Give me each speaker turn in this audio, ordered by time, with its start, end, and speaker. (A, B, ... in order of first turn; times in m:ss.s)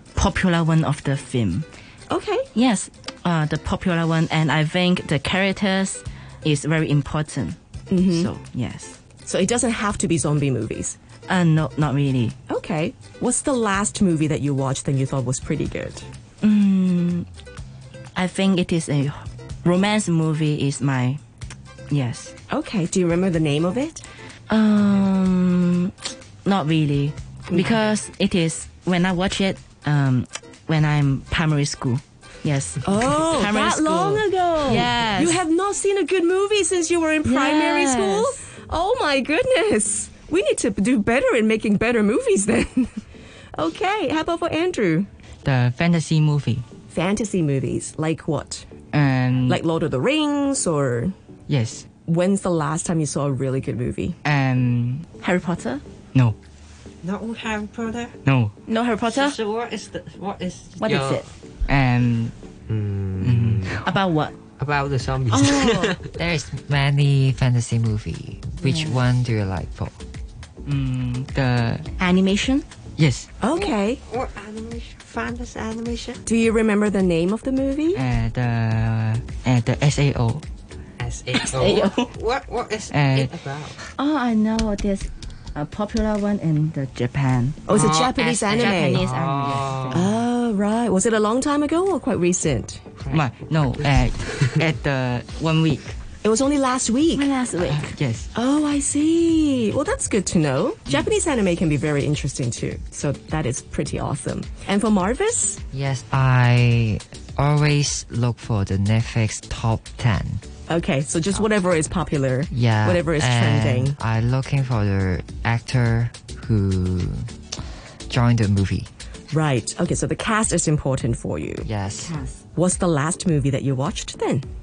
0:00.1-0:01.6 A
0:02.1-0:02.5 B
0:02.5-0:07.6 A
0:07.9-0:08.3 B
0:08.1-0:09.0 A
0:09.2-0:11.0 B
0:11.3-0:12.4 A
0:12.5-0:16.0 B
0:16.4-0:17.3 A
0:18.2-0:21.2 A
0:21.9-0:22.3 A
0:22.5-0:24.0 B
0:24.5-0:25.9 A
0:26.4-0:35.4 A
0:32.8-0:43.0 B
0:37.2-0:38.3 A
0:43.5-0:45.1 B
0:45.4-0:46.6 C
0:46.9-0:48.7 B
0:48.9-0:49.6 C
0:49.4-0:51.1 B
0:51.5-0:51.8 C
0:52.0-0:54.2 B
0:54.2-0:55.0 C
0:55.2-0:55.8 A
0:57.0-0:58.2 D
0:58.2-0:58.5 C
0:58.6-0:59.4 A
0:59.1-1:01.3 D
1:00.8-1:01.3 A
1:01.7-1:02.3 C
1:02.7-1:03.8 D
1:03.2-1:03.8 C
1:03.8-1:04.3 A
1:04.6-1:06.2 D
1:05.3-1:05.7 B
1:05.4-1:05.9 A
1:06.2-1:10.0 E
1:08.6-1:08.9 A
1:10.6-1:11.9 C
1:12.0-1:12.6 A
1:13.0-1:13.3 C
1:13.4-1:14.0 B
1:13.5-1:16.2 D
1:16.2-1:18.0 B
1:17.9-1:20.4 C
1:21.0-1:23.8 D
1:21.4-1:22.1 A
1:22.9-1:23.3 C
1:24.0-1:27.6 A
1:27.7-1:29.0 B
1:27.7-1:30.1 D
1:27.9-1:28.7 E
1:28.5-1:30.1 A
1:28.8-1:29.8 C
1:29.9-1:32.8 B
1:33.0-1:33.3 D
1:33.1-1:35.9 C
1:33.8-1:34.6 D
1:36.2-1:37.3 B
1:37.1-1:38.0 A
1:37.7-1:38.3 C
1:38.3-1:45.6 B
1:45.7-1:50.4 E
1:50.7-1:54.0 B
1:52.5-1:57.3 E
1:58.1-1:58.9 E
1:59.3-2:01.7 B
2:01.6-2:02.1 E
2:02.0-2:02.4 A
2:02.5-2:04.4 B